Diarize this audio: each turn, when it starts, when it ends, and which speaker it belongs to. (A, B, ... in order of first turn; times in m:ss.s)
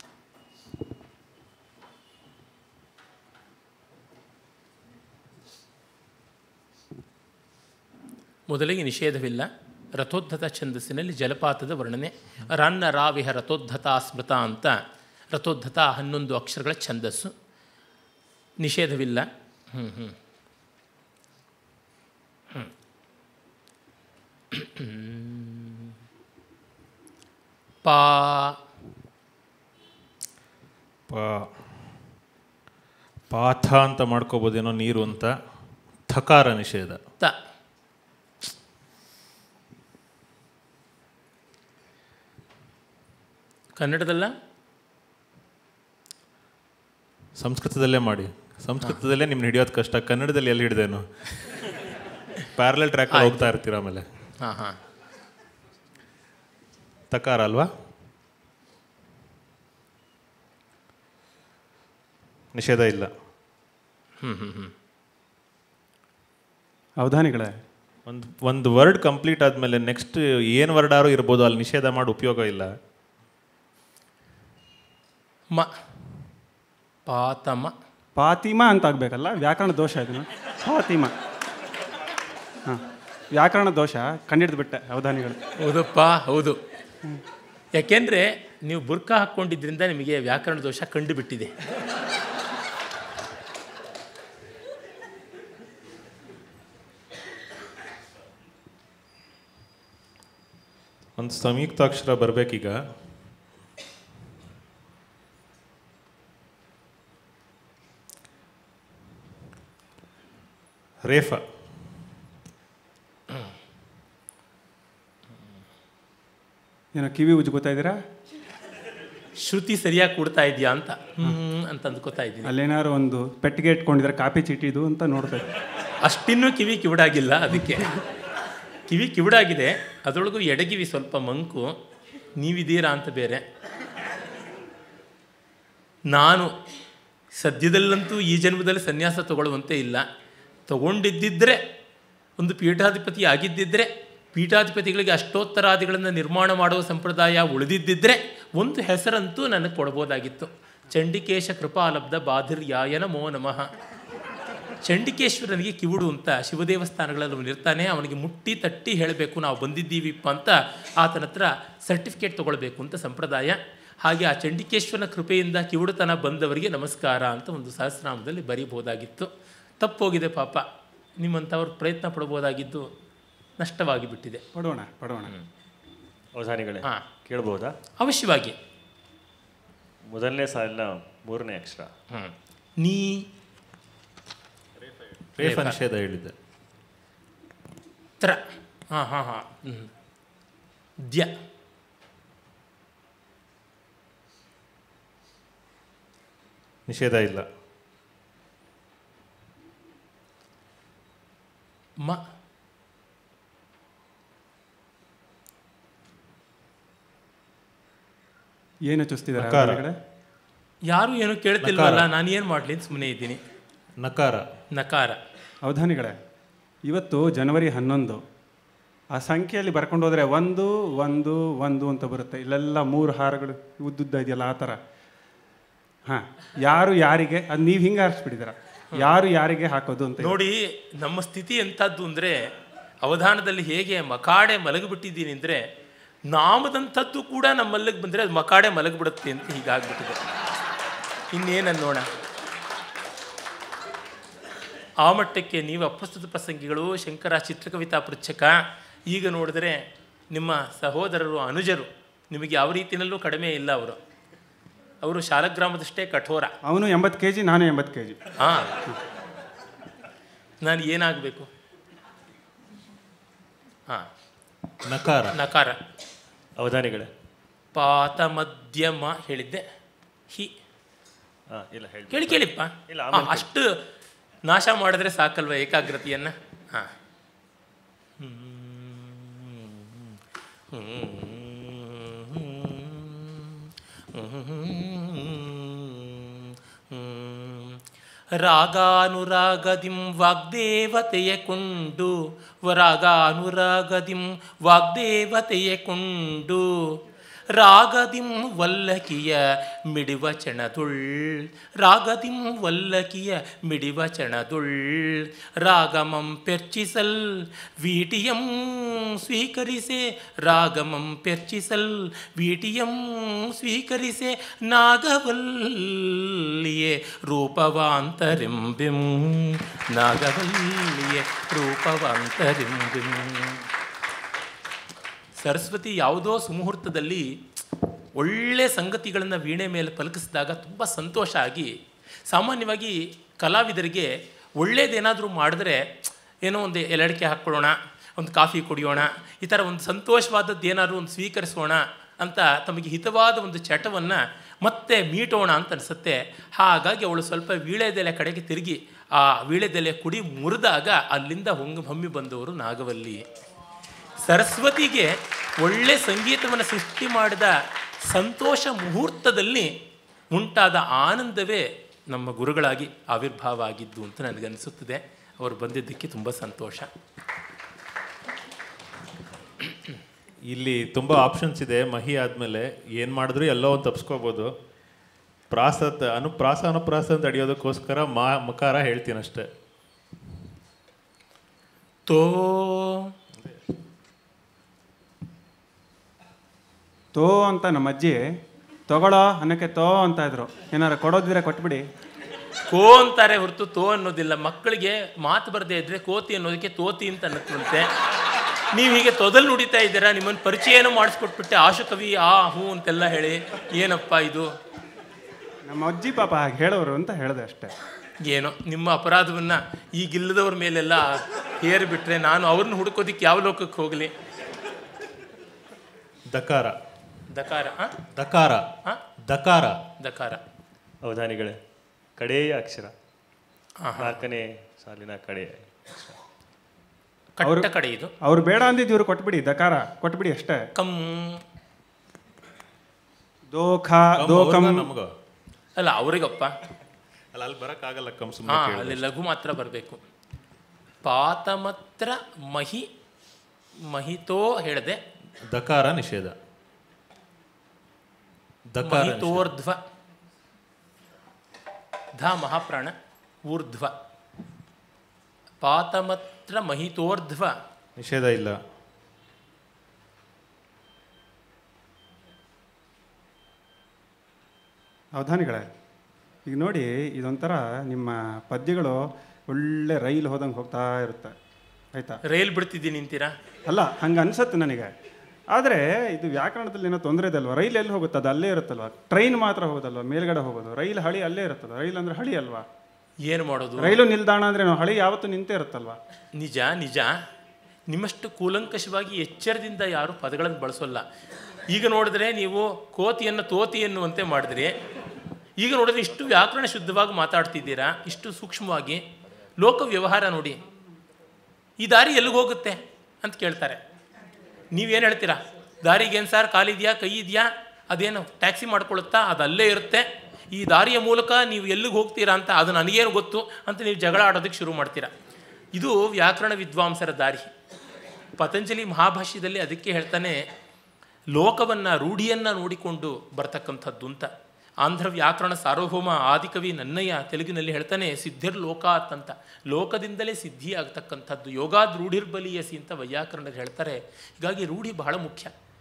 0:08.5-0:14.8 A
0:15.3-0:17.3 A
0:18.6-0:20.2 A
0:24.5-0:25.9 A
0:27.8-0:28.6 A
0:31.1-0:32.0 B
0:33.3-0:35.4 B
0:36.1-0:37.0 B
0:43.8-0:44.3 A
0:47.4-0:51.0 B
0:52.6-0:54.0 B
0:53.1-0:53.4 A
0:54.4-0:54.8 A
0:57.1-0:57.7 B
1:02.5-1:03.1 B
1:04.2-1:04.7 A
1:07.0-1:07.5 C
1:08.1-1:12.7 B
1:17.1-1:17.7 A
1:18.2-1:21.1 C
1:22.6-1:25.4 C
1:25.6-1:26.6 A
1:27.8-1:31.5 A
1:41.2-1:42.8 B
1:51.0-1:51.4 B
1:57.0-1:58.0 C
1:59.4-2:02.5 A
2:02.4-2:05.6 C
2:06.0-2:08.0 A
2:08.9-2:11.7 A
2:12.4-2:13.4 A
2:16.1-2:16.5 A
2:17.4-2:20.1 A
2:20.7-2:21.6 A
2:22.4-2:33.7 A
2:34.8-2:50.7 A
2:51.2-2:52.9 A
2:53.6-2:54.4 A
2:54.6-2:55.3 C
2:56.4-2:57.8 D
2:58.0-2:58.6 A
3:00.1-3:01.9 D
3:02.1-3:03.2 A
3:05.4-3:06.3 B
3:05.4-3:05.8 A
3:08.2-3:09.9 A
3:11.0-3:11.3 A
3:16.9-3:17.4 B
3:28.9-3:30.0 C
3:29.4-3:29.8 B
3:30.9-3:33.4 A
3:31.6-3:32.1 B
3:34.0-3:34.4 B
3:34.7-3:35.2 A
3:35.6-3:36.2 C
3:36.8-3:38.2 C
3:39.1-3:44.8 C
3:46.1-3:50.4 C
3:50.2-3:52.5 A
3:53.0-3:55.7 A
3:56.3-4:00.2 A
4:01.3-4:02.1 A
4:05.0-4:14.0 A
4:15.0-4:16.6 A
4:16.7-4:18.2 C
4:18.4-4:18.8 A
4:20.6-4:21.5 A
4:24.9-4:25.4 B
4:25.3-4:25.8 A
4:26.6-4:27.1 D
4:27.7-4:29.6 A
4:31.5-4:33.5 D
4:32.1-4:33.7 A
4:34.5-4:36.9 A
4:38.2-4:40.2 A
4:40.7-4:47.8 A
4:48.3-4:57.0 A
4:57.5-5:23.7 A
5:25.4-5:27.3 A
5:28.2-5:31.7 A
5:32.3-5:35.9 A
5:36.4-5:53.2 A
5:54.2-5:57.6 A
5:58.1-5:59.7 A
6:00.3-6:06.9 A
6:10.5-6:14.5 B
6:15.5-6:19.5 B
6:22.1-6:23.0 A
6:27.2-6:28.2 C
6:28.9-6:31.8 C
6:32.7-6:37.9 A
6:38.7-6:44.5 A
6:45.7-6:47.7 C
6:48.2-6:54.1 A
6:56.3-6:56.8 B
6:57.3-6:57.9 A
6:58.1-6:58.7 B
6:59.3-6:59.8 B
7:00.0-7:00.4 A
7:01.0-7:01.6 D
7:02.2-7:02.9 D
7:03.8-7:04.2 A
7:04.0-7:06.2 D
7:07.4-7:08.1 A
7:08.2-7:10.6 C
7:10.8-7:11.4 A
7:13.5-7:14.9 C
7:14.2-7:15.1 B
7:15.8-7:16.5 A
7:17.3-7:19.0 B
7:18.5-7:20.0 A
7:21.0-7:22.9 A
7:23.8-7:25.0 A
7:25.5-7:26.4 B
7:28.7-7:29.5 B
7:28.8-7:29.8 A
7:32.2-7:32.9 A
7:33.5-7:33.9 A
7:35.6-7:37.6 A
7:38.0-7:38.6 B
7:45.2-7:45.7 C
7:46.5-7:51.4 C
7:51.9-7:52.2 C
7:52.2-7:53.3 A
7:53.7-7:54.9 C
7:55.5-8:02.7 C
8:03.3-8:04.0 A
8:03.8-8:06.0 C
8:06.4-8:07.2 A
8:07.9-8:11.0 A
8:11.7-8:14.8 A
8:15.6-8:19.0 A
8:19.6-8:20.6 A
8:21.8-8:23.8 A
8:24.7-8:35.1 A
8:35.7-8:37.5 A
8:38.4-8:40.4 A
8:41.3-8:44.3 A
8:44.8-8:55.5 A